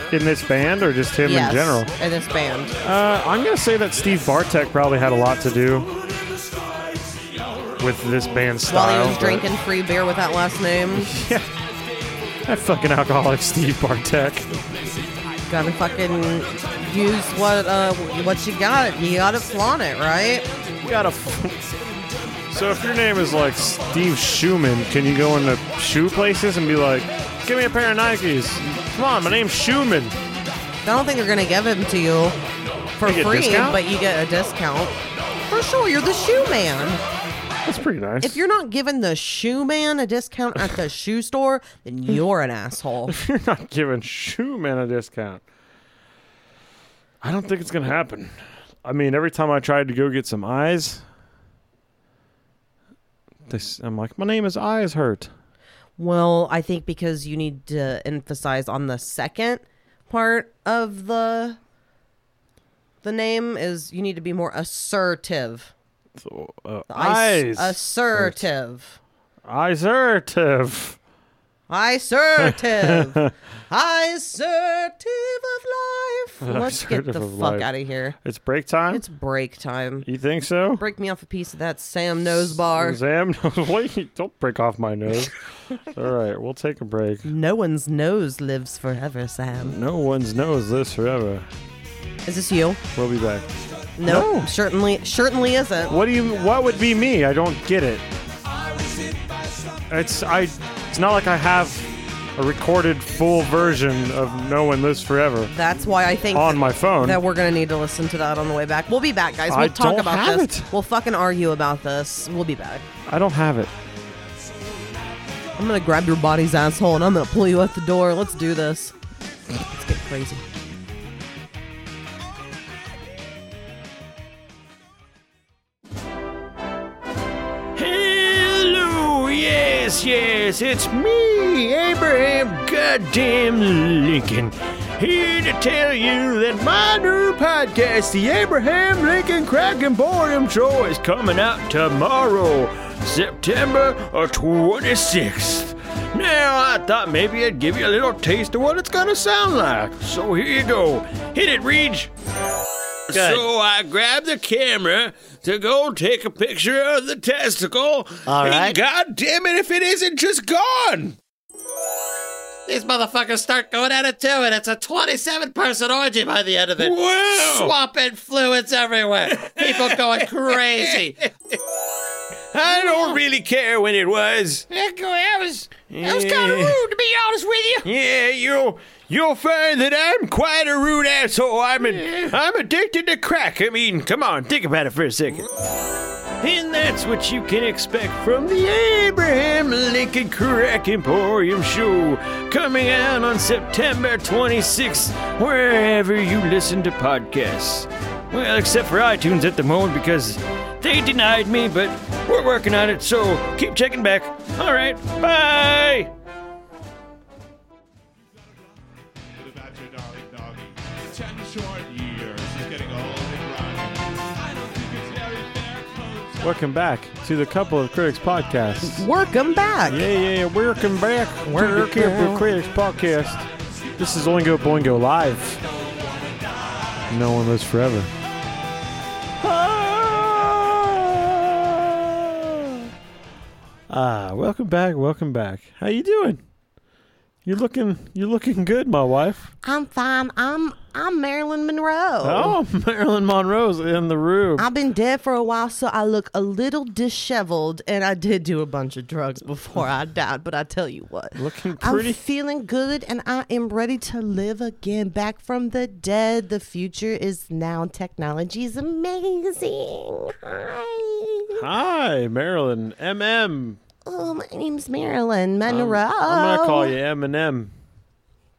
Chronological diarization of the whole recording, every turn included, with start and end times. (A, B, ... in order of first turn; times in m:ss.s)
0:00.1-0:01.9 A
0:01.2-0:02.8 B
0:02.8-0:05.9 A
0:07.8-0:09.5 A
0:08.6-0:11.1 B
0:10.9-0:11.5 A
0:12.4-0:14.6 A
0:15.5-0:20.5 B
0:20.8-0:21.6 A
0:22.5-0:30.2 A
0:30.8-0:32.4 B
0:33.0-0:35.0 B
0:33.0-0:33.8 A
0:35.5-0:37.0 B
0:37.6-0:38.4 A
0:38.2-0:43.1 B
0:43.1-0:45.4 A
0:47.2-0:51.0 A
0:53.5-0:55.3 A
0:56.0-1:01.6 B
1:03.0-1:05.7 B
1:06.2-1:08.4 A
1:06.9-1:09.0 B
1:09.4-1:11.0 A
1:11.7-1:18.2 B
1:12.7-1:13.2 A
1:16.4-1:17.7 A
1:18.2-1:19.0 A
1:18.9-1:20.1 B
1:20.0-1:20.8 A
1:20.8-1:23.0 B
1:22.3-1:27.3 A
1:27.2-1:29.8 B
1:29.6-1:31.5 A
1:32.2-1:32.8 B
1:32.9-1:33.5 A
1:34.0-1:36.0 B
1:34.0-1:34.5 A
1:35.9-1:38.0 A
1:39.9-1:45.5 A
1:45.5-1:52.8 B
1:46.3-1:47.2 A
1:49.5-1:50.7 A
1:53.1-1:53.7 A
1:55.6-1:58.9 B
1:59.5-2:00.4 B
2:07.8-2:32.1 C
2:33.1-2:41.2 C
2:33.2-2:33.4 D
2:38.3-2:38.7 A
2:42.6-2:51.2 D
2:46.8-2:47.8 C
2:49.4-2:51.1 C
2:52.5-3:05.5 C
2:52.8-2:53.1 B
2:56.0-2:56.9 B
3:06.4-3:26.1 C
3:29.5-3:30.7 E
3:31.2-3:34.0 E
3:34.8-3:35.8 E
3:36.4-3:39.1 A
3:38.8-3:40.0 B
3:39.9-3:45.6 A
3:41.4-3:42.5 B
3:47.1-3:48.1 A
3:49.4-3:52.6 A
3:53.9-3:56.4 A
3:57.4-3:59.5 A
3:59.6-4:02.6 B
4:02.2-4:04.6 A
4:04.6-4:21.6 B
4:11.3-4:12.2 A
4:21.5-4:23.8 A
4:24.0-4:26.9 B
4:25.6-4:27.7 A